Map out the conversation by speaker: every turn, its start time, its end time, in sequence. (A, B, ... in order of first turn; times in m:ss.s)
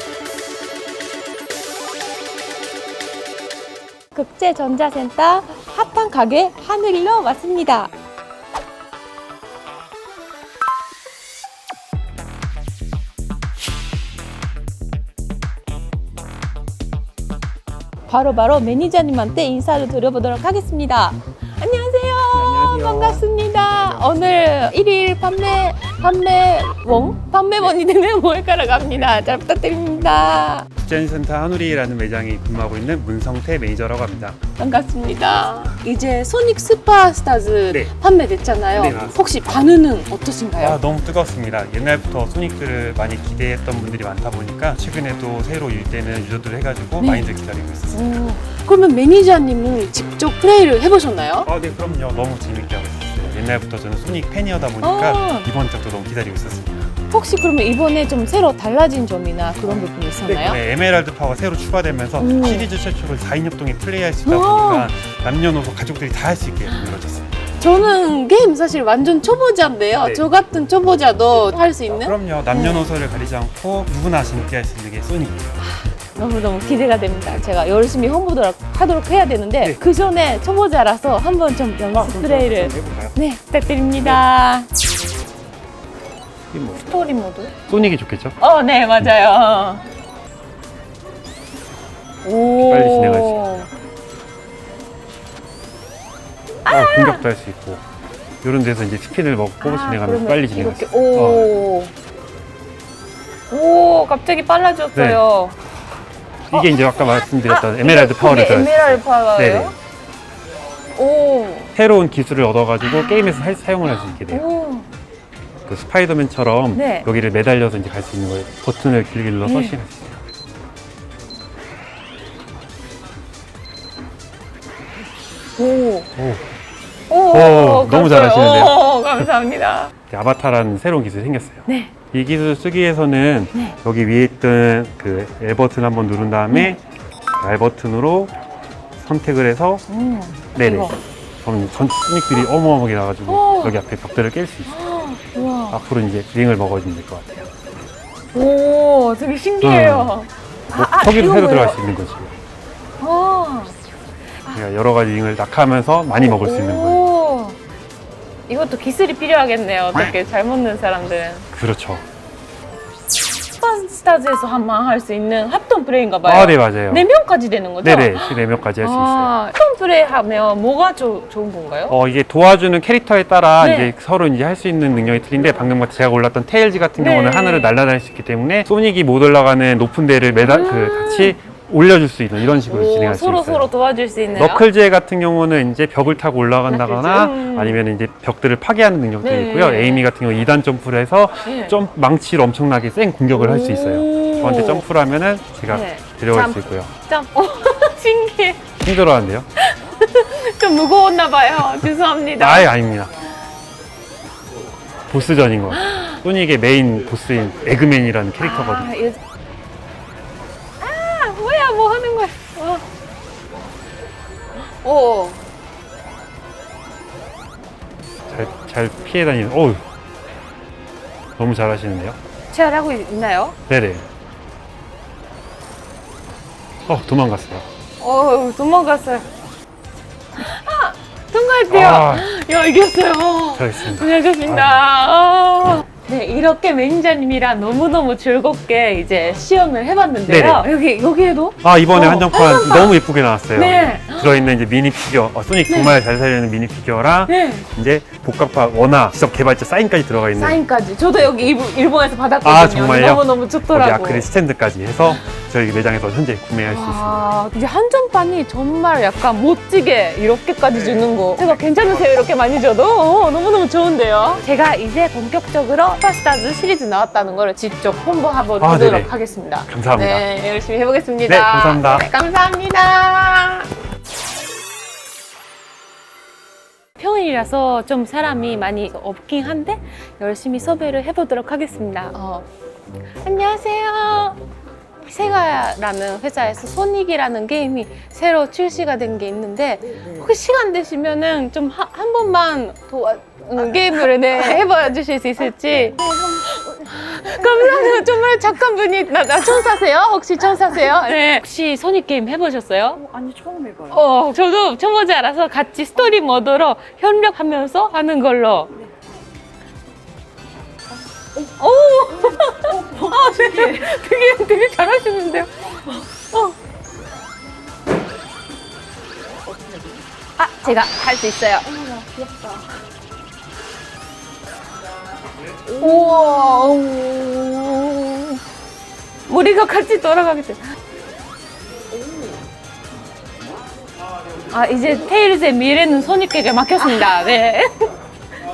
0:04.2-0:07.9 A
0:18.1-0:30.7 A
0:22.3-0:24.2 B
0:30.7-0:34.4 B
0:34.6-0:40.8 A
0:38.7-0:39.2 B
0:40.6-0:48.2 B
0:47.0-0:47.3 A
0:47.9-0:51.5 A
0:51.4-0:56.9 B
0:54.8-0:55.5 A
0:57.1-1:00.6 A
1:00.2-1:07.4 B
1:02.2-1:02.7 A
1:04.2-1:04.9 A
1:07.6-1:12.9 A
1:10.0-1:10.3 B
1:11.9-1:15.5 B
1:15.6-1:24.7 A
1:21.9-1:23.2 B
1:24.0-1:24.2 B
1:26.5-1:26.8 B
1:26.7-1:27.5 A
1:27.7-1:28.4 B
1:28.4-1:29.8 A
1:32.2-1:33.7 A
1:32.6-1:33.7 B
1:36.6-1:37.2 A
1:36.7-1:37.8 B
1:38.4-1:41.5 B
1:39.6-1:41.9 A
1:43.5-1:45.6 A
1:45.0-1:45.2 B
1:46.5-1:49.8 B
1:46.5-1:49.8 A
1:51.0-1:51.7 A
1:51.8-1:54.5 B
1:52.9-1:54.9 A
1:55.7-2:00.2 B
1:56.7-1:57.1 A
1:59.4-1:59.8 A
2:05.6-2:06.1 A
2:06.2-2:06.4 B
2:07.1-2:09.9 A
2:07.3-2:08.8 B
2:10.1-2:16.8 B
2:11.7-2:11.9 A
2:16.5-2:16.8 A
2:17.4-2:18.4 B
2:19.0-2:19.8 B
2:19.9-2:21.0 A
2:20.6-2:24.8 B
2:23.3-2:23.8 A
2:24.7-2:25.8 A
2:25.7-2:27.5 B
2:28.3-2:31.8 A
2:29.6-2:30.2 B
2:30.7-2:32.3 B
2:33.0-2:33.7 A
2:34.5-2:37.0 B
2:36.1-2:37.6 A
2:38.5-2:41.5 A
2:41.5-2:42.0 B
2:43.6-2:52.0 A
2:46.2-2:47.1 B
2:47.8-2:49.3 B
2:51.9-3:03.7 B
2:53.6-2:53.9 A
2:57.0-2:57.7 A
3:00.4-3:01.4 A
3:02.7-3:04.6 A
3:04.4-3:16.9 B
3:06.7-3:07.8 A
3:09.2-3:10.0 A
3:11.4-3:11.8 A
3:13.3-3:14.8 A
3:15.7-3:18.6 A
3:18.8-3:19.5 B
3:19.6-3:22.7 A
3:22.4-3:23.1 B
3:25.1-3:28.9 B
3:25.7-3:26.2 A
3:28.4-3:29.2 A
3:30.8-3:32.8 A
3:34.8-3:35.4 A
3:38.3-3:39.8 B
3:41.4-3:42.2 B
3:42.5-3:43.6 A
3:43.7-3:44.0 B
3:46.9-3:47.6 B
3:48.0-3:49.3 A
3:50.4-4:03.0 A
3:51.7-3:52.3 B
3:53.5-3:54.8 B
4:00.3-4:00.6 B
4:01.6-4:10.6 B
4:03.6-4:04.5 A
4:05.7-4:05.9 A
4:07.3-4:07.7 A
4:10.4-4:14.2 A
4:12.4-4:17.3 B
4:16.7-4:33.7 A
4:20.7-4:22.2 B
4:28.6-4:29.1 B
4:29.7-4:30.3 B
4:31.2-4:32.1 B
4:37.0-4:42.5 A
4:43.2-4:44.4 A
4:45.0-4:56.0 A
4:56.0-4:56.4 C
4:56.7-5:03.0 A
5:03.0-5:03.9 C
5:03.9-5:08.7 A
5:11.6-5:15.5 A
5:12.1-5:13.8 C
5:19.5-5:20.0 C
5:20.4-5:21.7 A
5:21.7-5:22.6 C
5:25.8-5:28.4 A
5:25.8-5:26.4 C
5:29.3-5:30.6 A
5:34.5-5:37.9 A